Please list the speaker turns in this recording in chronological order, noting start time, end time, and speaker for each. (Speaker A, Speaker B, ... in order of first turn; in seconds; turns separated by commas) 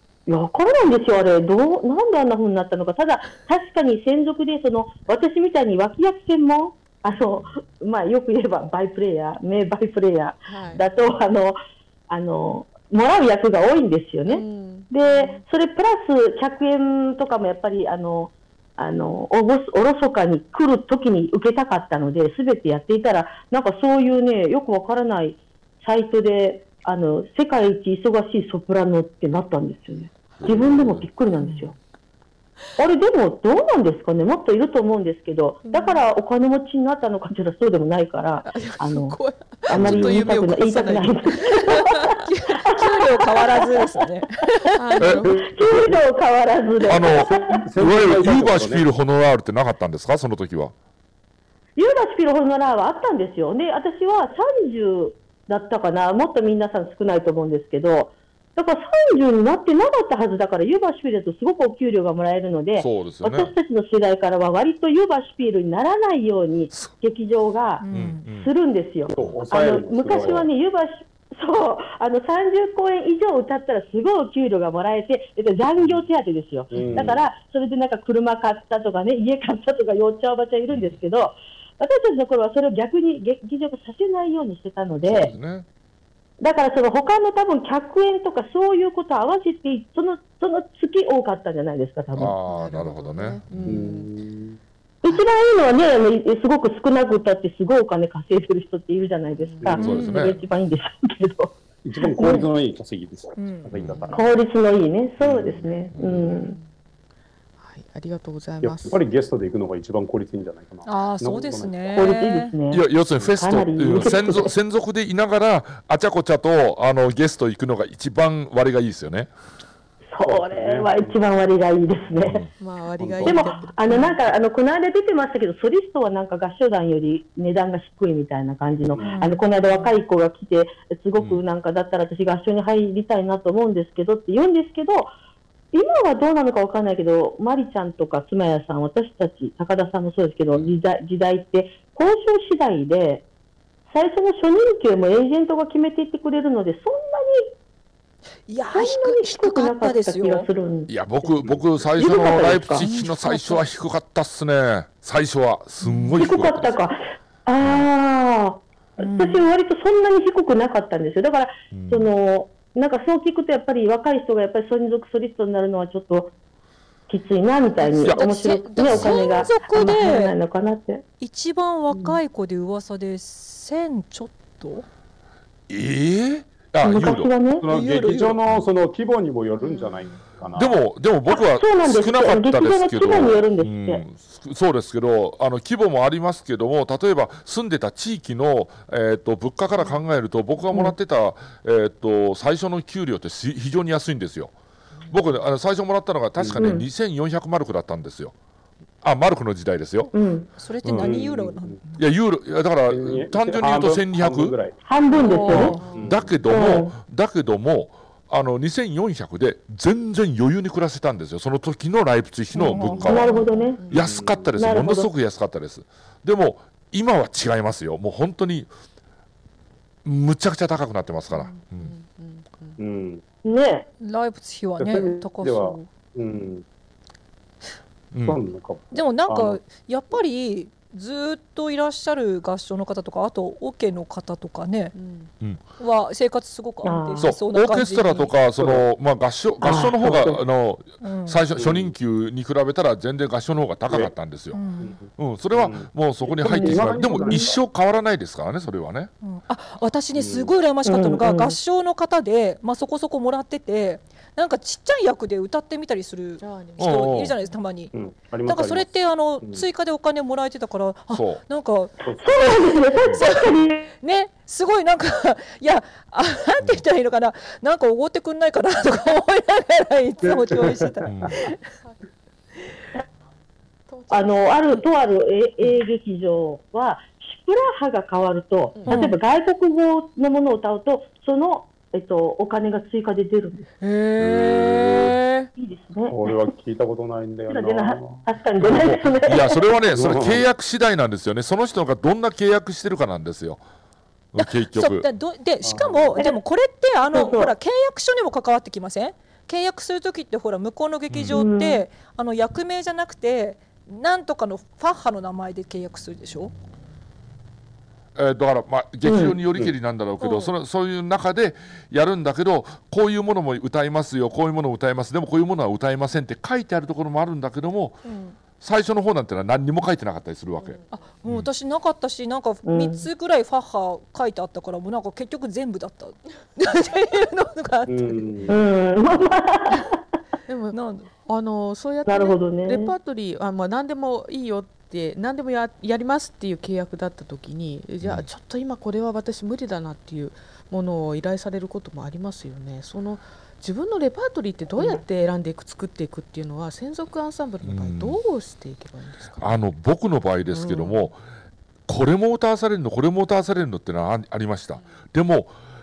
Speaker A: 0.3-11.6, Speaker B: 10.5-10.8, Speaker A: 12.1-31.7, Speaker B: 14.3-15.4, Speaker C: 30.4-31.1, Speaker B: 31.4-31.7, Speaker A: 32.8-39.2, Speaker B: 35.6-36.1, Speaker B: 38.4-42.2, Speaker A: 39.7-43.9, Speaker D: 39.7-40.3, Speaker E: 41.7-44.8, Speaker B: 44.7-45.4, Speaker D: 45.2-46.0, Speaker A: 45.3-47.4, Speaker D: 46.8-48.9, Speaker C: 46.9-47.3, Speaker C: 47.8-50.7, Speaker A: 51.8-85.3, Speaker C: 62.8-63.5, Speaker E: 67.8-68.2, Speaker C: 67.9-68.5, Speaker D: 69.1-70.5, Speaker D: 76.7-77.2, Speaker C: 76.8-77.1, Speaker C: 80.7-81.0, Speaker C: 85.0-85.7, Speaker A: 86.4-92.4, Speaker C: 92.2-93.8, Speaker B: 92.5-94.1, Speaker D: 93.7-94.6, Speaker A: 95.0-102.5, Speaker B: 99.4-100.1, Speaker C: 99.8-100.4, Speaker E: 99.8-100.3, Speaker D: 101.8-104.3, Speaker E: 103.4-103.7, Speaker C: 103.8-104.0, Speaker B: 103.9-104.2, Speaker A: 104.1-106.5, Speaker D: 105.2-106.0, Speaker C: 105.3-106.3, Speaker B: 107.6-109.0, Speaker D: 108.6-112.0, Speaker E: 110.8-112.5, Speaker A: 112.0-112.8, Speaker C: 112.7-119.3, Speaker A: 113.4-114.5, Speaker A: 120.1-122.5, Speaker D: 120.2-121.2, Speaker C: 122.2-122.5, Speaker B: 122.6-124.0, Speaker D: 123.0-123.5, Speaker A: 123.2-135.1, Speaker E: 129.1-129.4, Speaker C: 131.2-131.4, Speaker A: 135.7-143.2, Speaker A: 143.9-147.5, Speaker E: 148.5-150.5, Speaker A: 148.7-151.4, Speaker C: 150.9-156.8, Speaker D: 151.4-151.9, Speaker A: 152.0-152.9, Speaker E: 152.8-153.6, Speaker E: 155.8-156.2, Speaker A: 156.2-166.3, Speaker C: 157.6-157.9, Speaker E: 159.0-159.5, Speaker C: 161.7-162.1, Speaker A: 167.1-171.0, Speaker E: 167.8-170.3, Speaker C: 168.0-169.5, Speaker E: 171.2-174.9, Speaker A: 171.9-172.2, Speaker C: 175.7-177.3, Speaker A: 176.8-177.7, Speaker D: 177.6-180.8, Speaker E: 177.7-178.4, Speaker B: 179.6-180.1, Speaker C: 180.6-194.5, Speaker A: 181.3-184.0, Speaker C: 195.1-198.3, Speaker A: 196.6-196.9, Speaker C: 199.0-200.1, Speaker A: 200.1-200.5, Speaker E: 200.6-202.0, Speaker D: 200.8-201.8, Speaker C: 202.0-204.6, Speaker D: 202.9-206.4, Speaker A: 204.9-205.9, Speaker E: 205.2-205.8, Speaker B: 205.6-206.3, Speaker C: 205.6-213.3, Speaker A: 206.5-206.9, Speaker E: 212.6-213.4, Speaker A: 212.6-213.9, Speaker B: 213.1-214.1, Speaker C: 213.9-218.7, Speaker D: 213.9-214.5, Speaker A: 214.6-215.1, Speaker C: 220.1-221.9, Speaker B: 221.3-222.8, Speaker D: 222.8-223.2, Speaker A: 223.4-223.9, Speaker E: 224.0-225.9, Speaker D: 224.8-226.7, Speaker C: 228.1-228.4, Speaker D: 228.2-229.6, Speaker E: 228.9-234.9, Speaker B: 234.9-235.3, Speaker E: 235.8-238.3, Speaker A: 236.8-237.3, Speaker C: 237.2-244.6, Speaker D: 238.6-238.8, Speaker A: 239.6-240.3, Speaker E: 241.0-241.4, Speaker D: 241.6-241.9, Speaker E: 244.5-244.9, Speaker D: 244.8-247.6, Speaker C: 245.2-249.1, Speaker E: 249.2-257.9, Speaker D: 250.2-250.5, Speaker A: 250.9-251.6, Speaker B: 256.4-257.1, Speaker C: 256.8-257.4, Speaker D: 257.9-259.6, Speaker E: 258.4-271.6, Speaker C: 261.1-261.4, Speaker D: 262.0-262.4, Speaker A: 262.2-263.9, Speaker D: 270.3-271.3, Speaker C: 271.1-271.3, Speaker B: 273.9-274.8, Speaker A: 274.1-283.7, Speaker B: 278.8-279.1, Speaker E: 278.9-279.2, Speaker E: 283.8-285.5, Speaker C: 284.2-285.1, Speaker A: 285.6-286.3, Speaker D: 286.1-288.3, Speaker A: 287.5-289.7, Speaker C: 288.6-293.6, Speaker D: 289.9-290.4, Speaker C: 294.3-295.0, Speaker E: 294.4-306.5, Speaker D: 295.6-296.2, Speaker A: 297.1-297.5, Speaker C: 301.1-301.4, Speaker A: 301.3-301.8, Speaker C: 308.1-318.0, Speaker A: 309.0-309.4, Speaker E: 310.2-310.5, Speaker E: 318.1-318.4, Speaker C: 318.6-321.5, Speaker E: 320.9-328.5, Speaker A: 322.7-323.1, Speaker D: 327.9-328.6, Speaker A: 328.5-330.0, Speaker B: 330.5-349.5, Speaker E: 330.7-331.1, Speaker A: 332.1-332.9, Speaker C: 338.0-338.3, Speaker C: 347.6-348.2, Speaker C: 349.4-351.2, Speaker C: 351.9-355.5